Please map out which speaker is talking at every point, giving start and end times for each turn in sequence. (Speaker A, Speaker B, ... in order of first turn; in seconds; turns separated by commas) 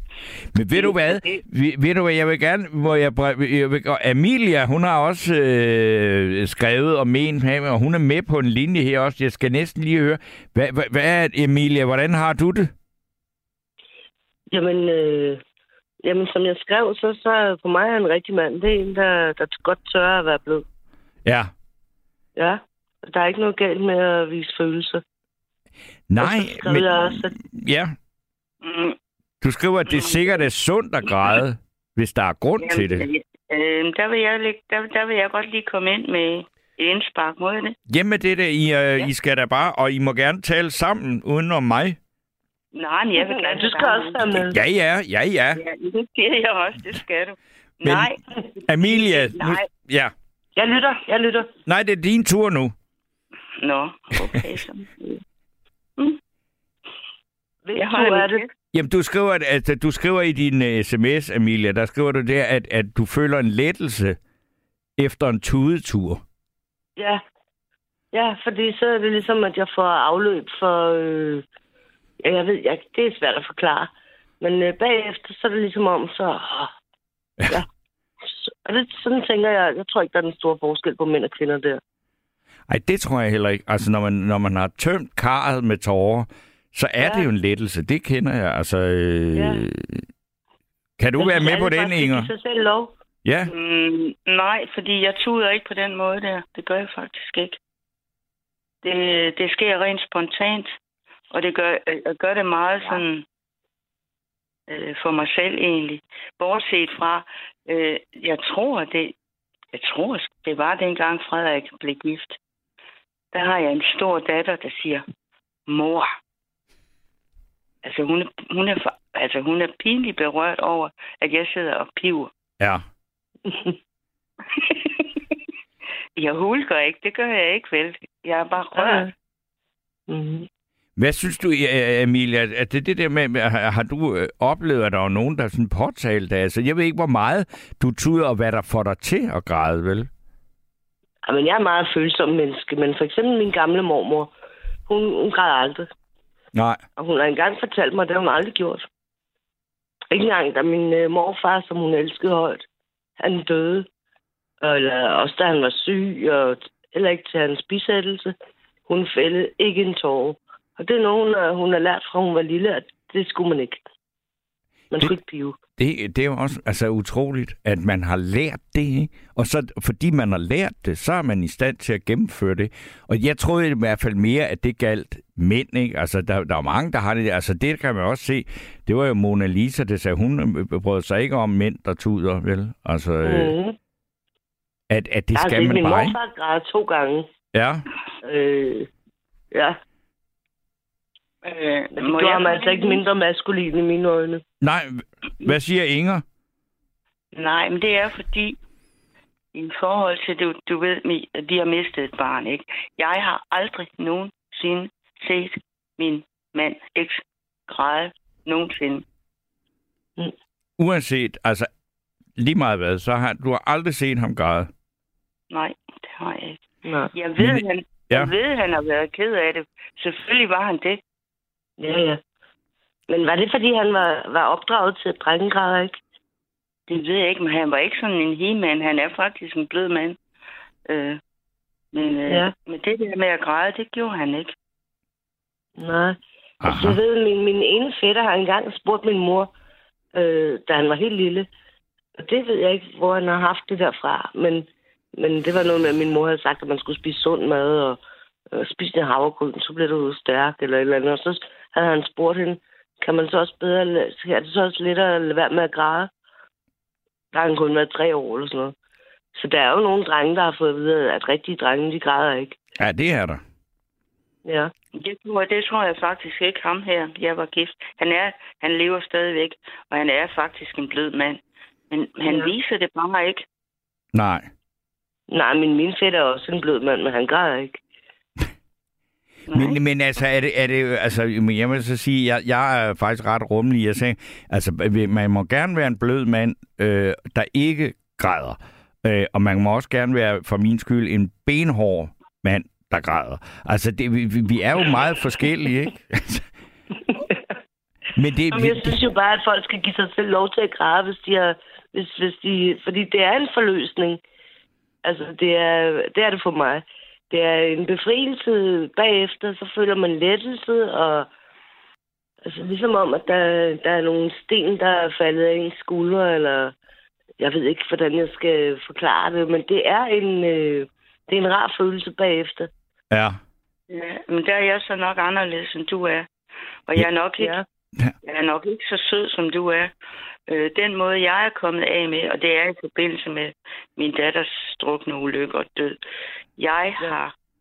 Speaker A: 0.5-12.7, Speaker B: 0.7-1.4, Speaker C: 14.5-15.4, Speaker C: 16.0-20.6, Speaker A: 21.2-21.5, Speaker C: 22.4-25.0, Speaker A: 26.1-27.9, Speaker C: 26.2-27.3, Speaker B: 28.6-28.9, Speaker A: 29.4-33.1, Speaker B: 29.9-30.4, Speaker B: 32.6-37.8, Speaker A: 37.9-42.0, Speaker B: 42.7-44.4, Speaker C: 43.1-44.6, Speaker A: 44.4-45.6, Speaker B: 45.5-48.2, Speaker A: 47.8-48.1, Speaker A: 48.7-50.1, Speaker B: 48.7-49.7, Speaker C: 50.5-51.5, Speaker A: 51.6-52.7, Speaker B: 53.6-55.2, Speaker C: 57.6-58.4, Speaker B: 57.8-58.4, Speaker A: 58.7-64.2, Speaker A: 65.0-66.2, Speaker C: 67.0-67.2, Speaker C: 68.1-71.4, Speaker C: 72.2-76.7, Speaker C: 78.3-81.8, Speaker A: 82.7-90.0, Speaker C: 87.0-87.3, Speaker C: 89.3-89.6, Speaker A: 91.0-92.3, Speaker C: 91.2-92.9, Speaker A: 93.2-93.5, Speaker B: 93.5-97.6, Speaker B: 98.8-100.8, Speaker B: 101.3-103.2, Speaker B: 104.7-109.1, Speaker B: 109.7-112.4, Speaker B: 113.3-115.0, Speaker B: 115.7-116.1, Speaker B: 117.8-122.3, Speaker C: 123.5-123.7, Speaker B: 124.5-125.0, Speaker B: 126.2-129.0, Speaker C: 128.8-129.1, Speaker C: 130.1-130.5, Speaker A: 131.0-140.1, Speaker C: 141.2-144.3, Speaker C: 144.9-145.9, Speaker A: 146.5-146.8, Speaker C: 147.0-148.9, Speaker C: 150.1-152.7, Speaker C: 153.2-153.9, Speaker C: 154.6-158.3, Speaker C: 158.9-163.8, Speaker C: 164.9-165.6, Speaker A: 165.8-183.5, Speaker C: 183.2-183.8, Speaker A: 184.9-186.2, Speaker C: 185.3-187.3, Speaker A: 187.5-187.8, Speaker C: 188.2-188.9, Speaker C: 189.5-189.8, Speaker B: 191.4-193.0, Speaker C: 191.9-194.4, Speaker A: 194.6-196.2, Speaker B: 197.3-198.6, Speaker B: 199.5-209.0, Speaker A: 210.8-211.7, Speaker A: 212.4-214.7, Speaker B: 215.5-216.6, Speaker C: 216.8-217.1, Speaker B: 217.1-221.0, Speaker A: 217.4-218.3, Speaker C: 221.8-222.2, Speaker C: 223.1-226.0, Speaker B: 226.9-230.2, Speaker B: 230.9-231.2, Speaker B: 231.9-234.5, Speaker C: 232.3-232.5, Speaker C: 235.8-239.5, Speaker A: 236.6-237.0, Speaker C: 240.1-241.5, Speaker C: 242.2-248.0, Speaker C: 248.5-256.1, Speaker C: 257.3-258.7, Speaker C: 259.3-262.6, Speaker A: 262.8-263.4, Speaker C: 264.4-264.7, Speaker B: 264.9-273.4, Speaker C: 272.2-272.5, Speaker A: 274.1-274.5, Speaker C: 275.3-277.8, Speaker B: 279.5-279.8, Speaker A: 279.5-296.4, Speaker A: 298.1-299.0, Speaker C: 298.5-304.2, Speaker C: 305.0-311.3, Speaker C: 312.4-316.7, Speaker C: 317.4-322.7, Speaker A: 323.1-323.4, Speaker B: 323.9-326.3, Speaker B: 326.9-327.6, Speaker C: 327.4-327.6, Speaker B: 328.2-329.9, Speaker B: 330.5-336.0, Speaker B: 336.6-337.3